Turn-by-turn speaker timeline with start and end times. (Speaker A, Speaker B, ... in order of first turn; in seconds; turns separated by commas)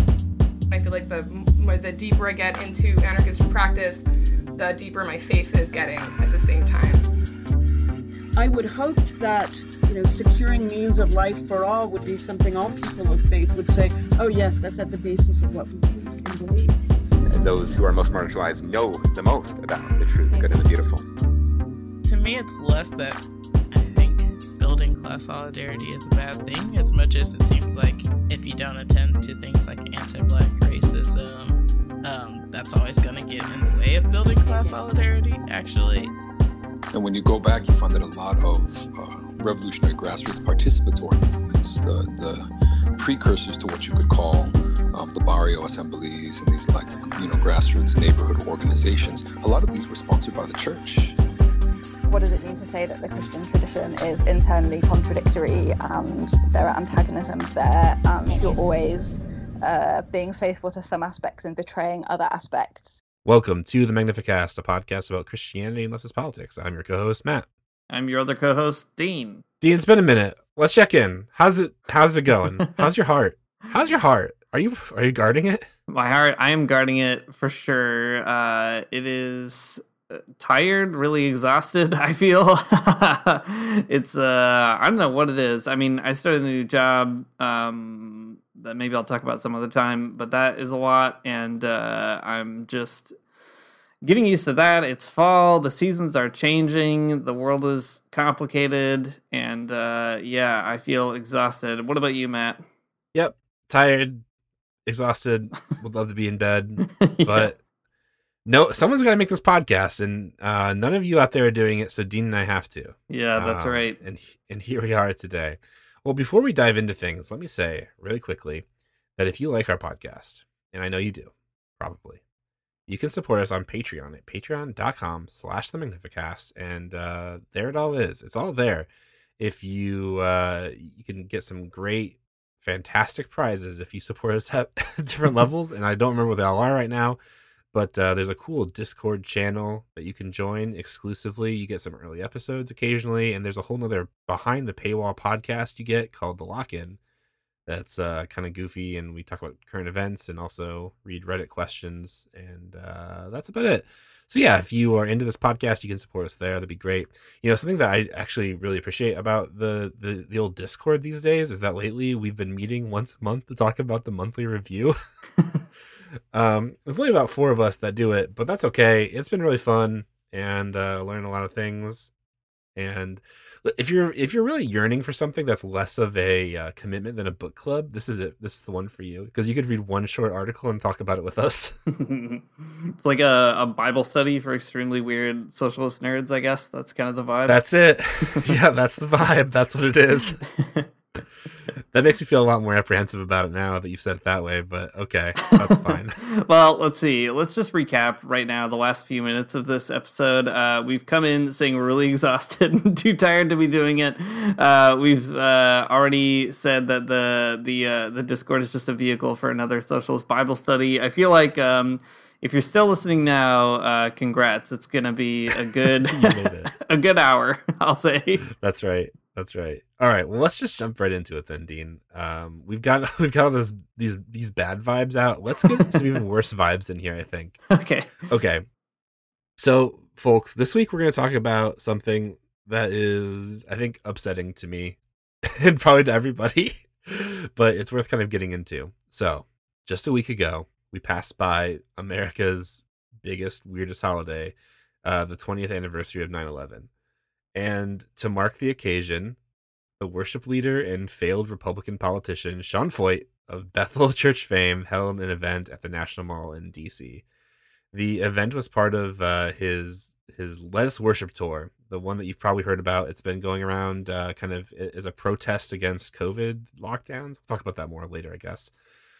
Speaker A: 0.7-4.0, Speaker A: 4.6-7.1, Speaker B: 8.4-16.8, Speaker C: 17.3-21.1, Speaker D: 20.3-20.6, Speaker E: 22.1-36.1, Speaker F: 36.9-42.4, Speaker F: 43.0-51.2, Speaker D: 52.1-63.0, Speaker G: 63.2-67.5, Speaker H: 67.9-69.4, Speaker G: 69.6-75.7, Speaker H: 75.9-93.1, Speaker H: 94.0-102.6, Speaker G: 103.1-104.2, Speaker G: 104.9-107.6, Speaker H: 107.0-107.5, Speaker G: 108.5-118.7, Speaker H: 113.1-114.0, Speaker G: 119.2-122.2, Speaker G: 122.9-128.9, Speaker G: 129.4-137.2, Speaker G: 137.7-147.0, Speaker G: 147.7-165.0, Speaker G: 166.3-172.1, Speaker G: 172.8-181.8, Speaker H: 181.9-187.6, Speaker G: 187.5-190.4, Speaker H: 190.6-190.9, Speaker G: 191.9-196.2, Speaker H: 195.5-218.4, Speaker G: 215.9-216.7, Speaker G: 218.5-227.6, Speaker H: 227.7-228.2, Speaker G: 228.3-228.7, Speaker G: 229.6-246.9, Speaker G: 247.5-249.4, Speaker G: 250.0-257.2, Speaker G: 257.9-268.7